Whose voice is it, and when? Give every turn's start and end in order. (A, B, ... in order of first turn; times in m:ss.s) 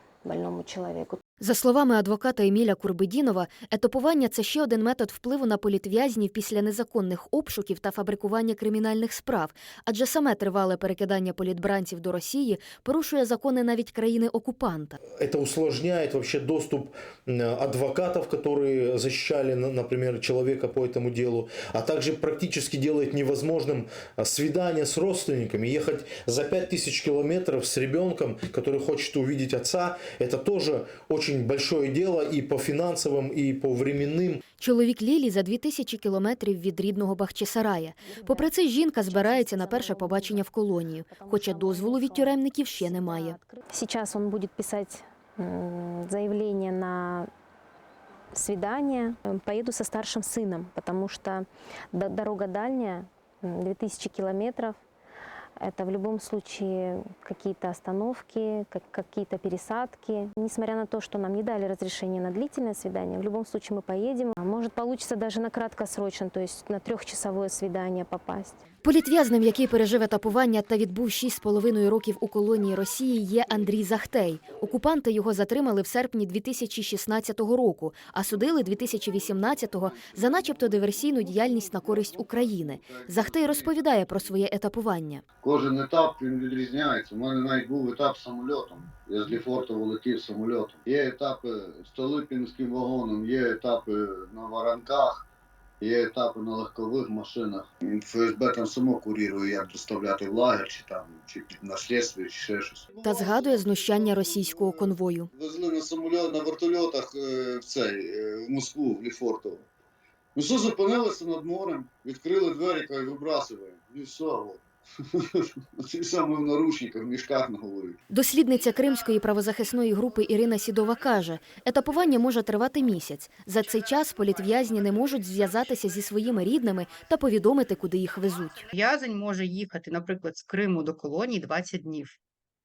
0:00.2-0:01.2 A
0:01.4-0:15.0 B
0:15.2-0:34.4 C
0:34.6-0:43.4 B
0:38.0-0:40.5 A
0:41.0-0:47.3 A
0:48.3-0:54.8 A
0:55.6-1:08.6 A
1:08.8-1:25.2 B
1:18.5-1:24.3 D
1:25.4-1:35.2 D
1:35.8-1:49.7 D
1:43.0-1:45.3 B
1:50.3-1:54.6 D
1:55.1-1:58.0 D
1:58.1-2:08.6 B
2:08.7-2:12.2 E